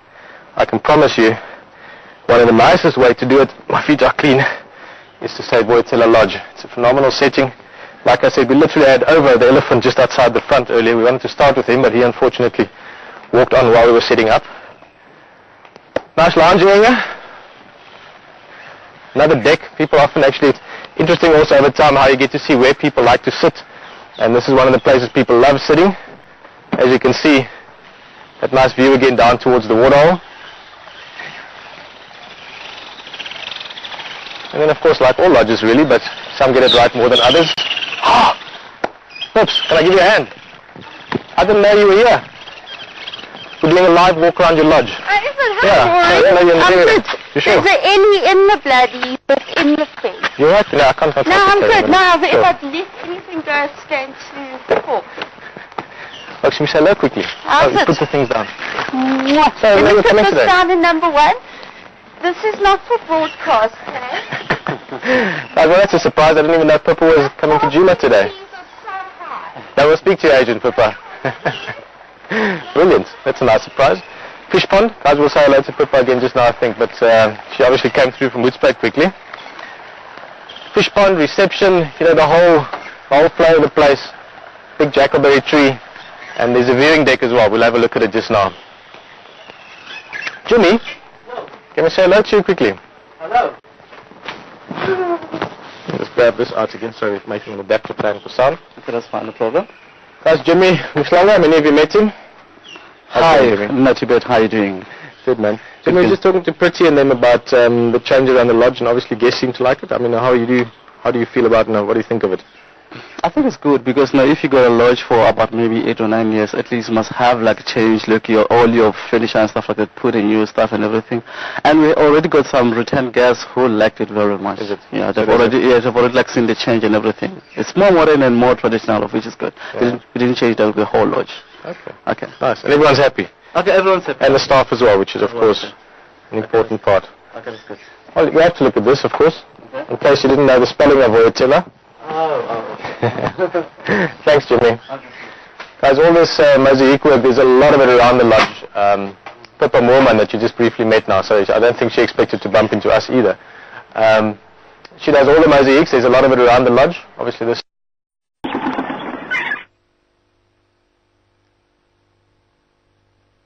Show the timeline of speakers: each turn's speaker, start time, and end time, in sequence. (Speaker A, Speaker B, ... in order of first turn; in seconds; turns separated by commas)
Speaker A: 0.6-1.4, Speaker A: 2.3-4.5, Speaker A: 5.2-7.5, Speaker A: 8.0-12.7, Speaker A: 13.3-14.5, Speaker A: 16.1-17.0, Speaker A: 19.1-23.6, Speaker A: 24.2-25.9, Speaker A: 26.7-27.5, Speaker A: 28.4-30.2, Speaker A: 34.5-38.4, Speaker A: 39.3-40.3, Speaker A: 41.4-42.2, Speaker A: 43.6-45.0, Speaker B: 45.1-50.3, Speaker A: 45.6-47.7, Speaker A: 50.4-52.5, Speaker B: 51.2-55.1, Speaker A: 56.4-58.5, Speaker B: 57.4-58.0, Speaker B: 58.9-61.4, Speaker A: 59.6-60.5, Speaker B: 62.2-64.4, Speaker A: 64.9-68.3, Speaker B: 68.7-69.4, Speaker A: 69.7-71.6, Speaker A: 72.3-79.1, Speaker A: 80.7-84.1, Speaker A: 84.8-85.8, Speaker A: 86.3-88.5, Speaker A: 90.5-90.8, Speaker A: 91.7-92.8, Speaker C: 93.2-93.5, Speaker A: 95.9-98.6, Speaker C: 98.8-99.7, Speaker A: 100.2-102.1, Speaker A: 103.1-103.7, Speaker C: 103.1-104.9, Speaker A: 105.2-112.4, Speaker C: 105.9-106.2, Speaker C: 113.2-131.4, Speaker A: 124.6-125.5, Speaker A: 131.7-133.3, Speaker C: 132.1-132.3, Speaker C: 133.5-134.5, Speaker A: 134.2-135.7, Speaker C: 135.2-135.7, Speaker A: 136.3-137.1, Speaker C: 137.3-137.8, Speaker A: 138.1-141.7, Speaker C: 142.0-143.3, Speaker A: 143.8-144.8, Speaker A: 145.8-153.4, Speaker A: 153.9-154.4, Speaker A: 155.0-157.6